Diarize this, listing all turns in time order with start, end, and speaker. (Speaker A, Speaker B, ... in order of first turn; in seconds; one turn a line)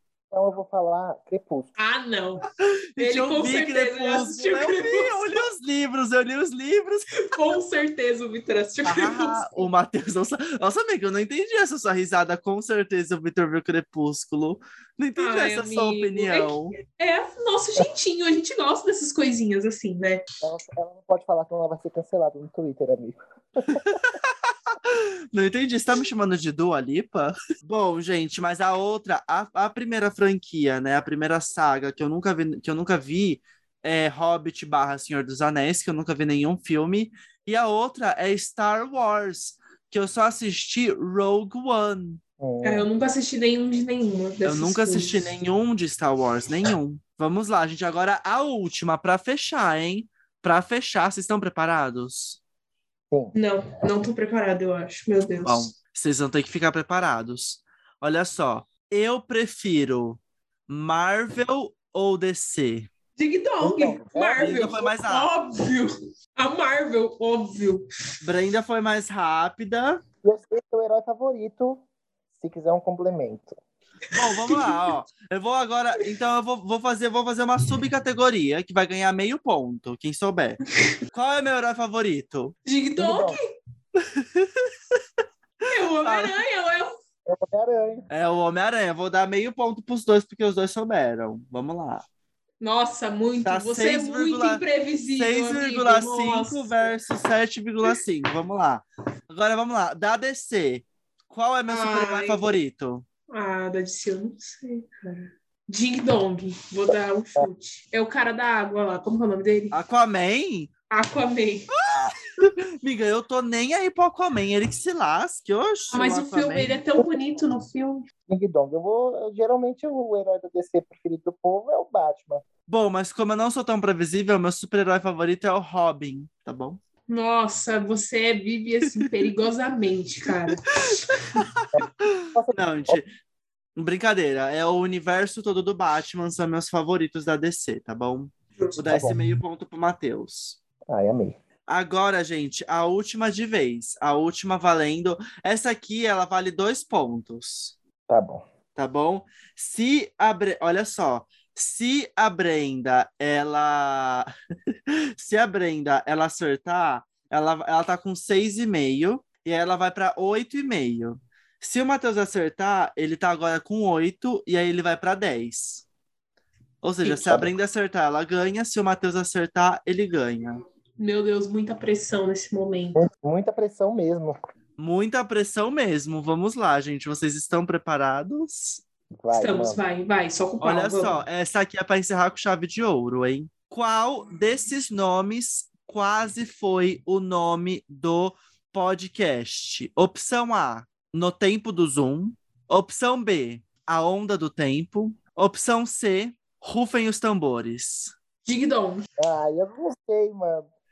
Speaker A: 0.3-1.7
Speaker B: 1.8-2.5
Speaker C: 2.6-7.3
Speaker B: 3.0-5.4
Speaker B: 7.2-9.7
Speaker C: 8.8-16.8
Speaker B: 15.2-20.2
Speaker A: 20.4-23.8
Speaker C: 23.7-42.2
Speaker A: 42.4-42.9
Speaker B: 42.6-45.2
Speaker C: 44.5-52.4
Speaker B: 53.4-55.7
Speaker C: 55.4-62.9
Speaker B: 63.2-67.9
Speaker A: 63.6-64.6
Speaker C: 64.4-65.3
Speaker C: 68.2-70.0
Speaker A: 70.2-71.8
Speaker A: 72.4-73.5
Speaker C: 74.1-82.6
Speaker B: 74.1-74.9
Speaker B: 82.7-83.5
Speaker A: 83.0-83.4
Speaker C: 84.0-85.0
Speaker C: 85.6-86.4
Speaker B: 85.7-86.9
Speaker A: 87.3-88.1
Speaker C: 88.1-92.0
Speaker B: 92.6-96.9
Speaker C: 93.5-94.6
Speaker C: 95.2-103.0
Speaker B: 101.7-102.4
Speaker B: 103.3-109.8
Speaker C: 109.7-110.7
Speaker B: 110.9-111.7
Speaker C: 111.7-116.8
Speaker B: 115.9-118.1
Speaker A: 118.3-122.4
Speaker C: 122.7-126.8
Speaker B: 127.1-131.3
Speaker C: 130.9-133.1
Speaker A: 131.7-133.0
Speaker C: 133.8-140.6
Speaker A: 138.9-139.2
Speaker A: 140.9-141.4
Speaker C: 141.7-147.8
Speaker A: 148.1-148.4
Speaker C: 148.8-154.3
Speaker C: 154.9-165.8
Speaker C: 166.8-170.6
Speaker A: 167.1-167.5
Speaker B: 171.0-173.0
Speaker A: 173.0-174.4
Speaker C: 174.8-178.8
Speaker A: 179.2-179.8
Speaker B: 179.3-181.2
Speaker C: 180.6-198.1
Speaker B: 198.5-199.1
Speaker A: 199.2-200.7